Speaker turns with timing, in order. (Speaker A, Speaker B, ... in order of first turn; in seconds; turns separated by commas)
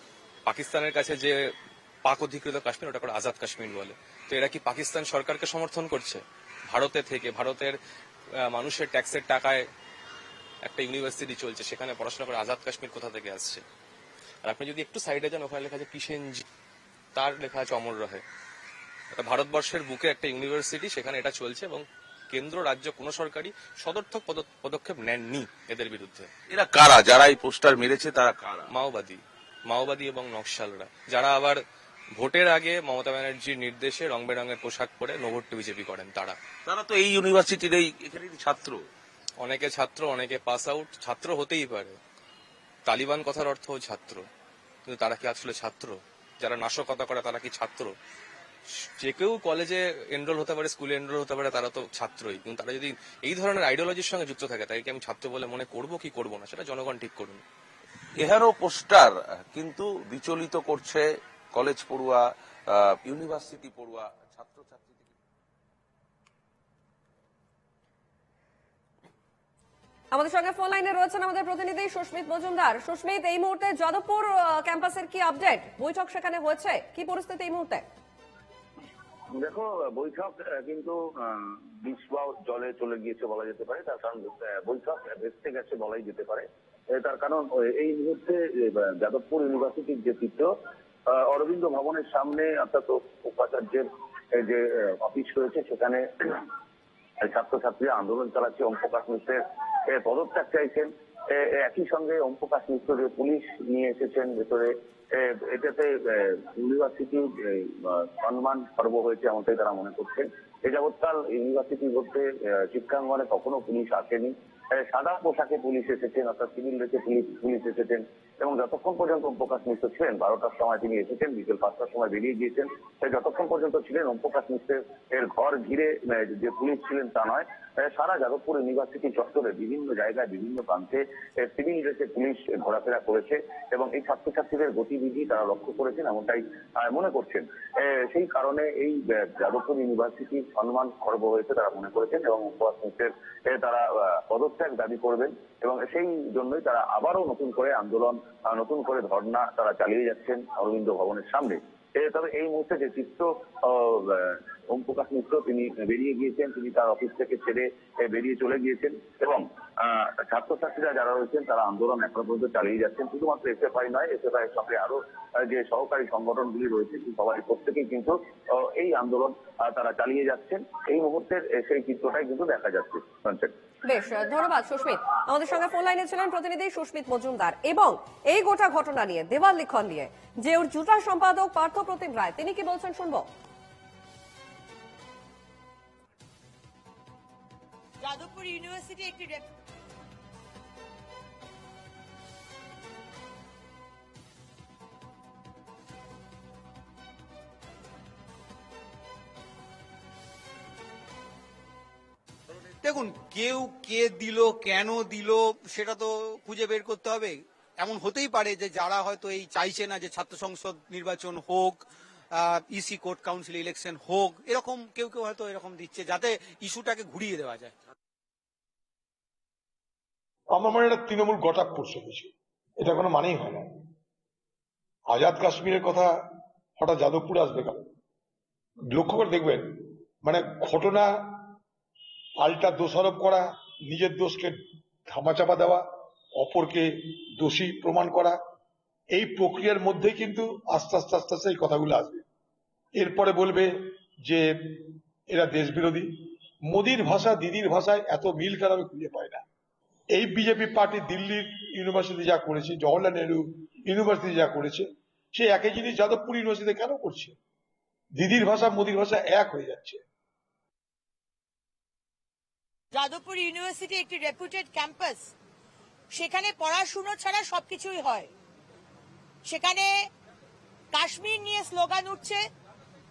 Speaker A: 0.5-7.8, Speaker A: 8.3-9.7, Speaker A: 10.6-13.6, Speaker A: 14.4-16.4, Speaker A: 17.1-18.2, Speaker A: 19.1-26.3, Speaker B: 26.5-28.7, Speaker A: 28.7-31.6, Speaker A: 32.1-36.4, Speaker B: 36.6-38.8, Speaker A: 39.4-42.0, Speaker A: 42.9-44.2, Speaker A: 44.9-48.0, Speaker A: 48.7-57.4, Speaker B: 58.2-65.1, Speaker C: 70.1-77.9, Speaker D: 79.3-90.5, Speaker D: 91.1-96.5, Speaker D: 97.2-173.5, Speaker C: 173.8-183.3, Speaker E: 188.0-189.5, Speaker F: 202.8-211.8, Speaker F: 212.3-217.8, Speaker G: 220.5-223.7, Speaker G: 225.1-226.1, Speaker G: 226.8-227.9, Speaker G: 228.9-231.5, Speaker G: 232.4-235.9, Speaker G: 236.4-238.4, Speaker G: 239.1-242.2, Speaker G: 243.0-246.1, Speaker G: 246.7-249.4, Speaker G: 250.1-257.4, Speaker G: 258.2-260.0, Speaker E: 262.9-265.3, Speaker E: 266.1-268.3, Speaker E: 269.5-269.9, Speaker E: 270.9-272.4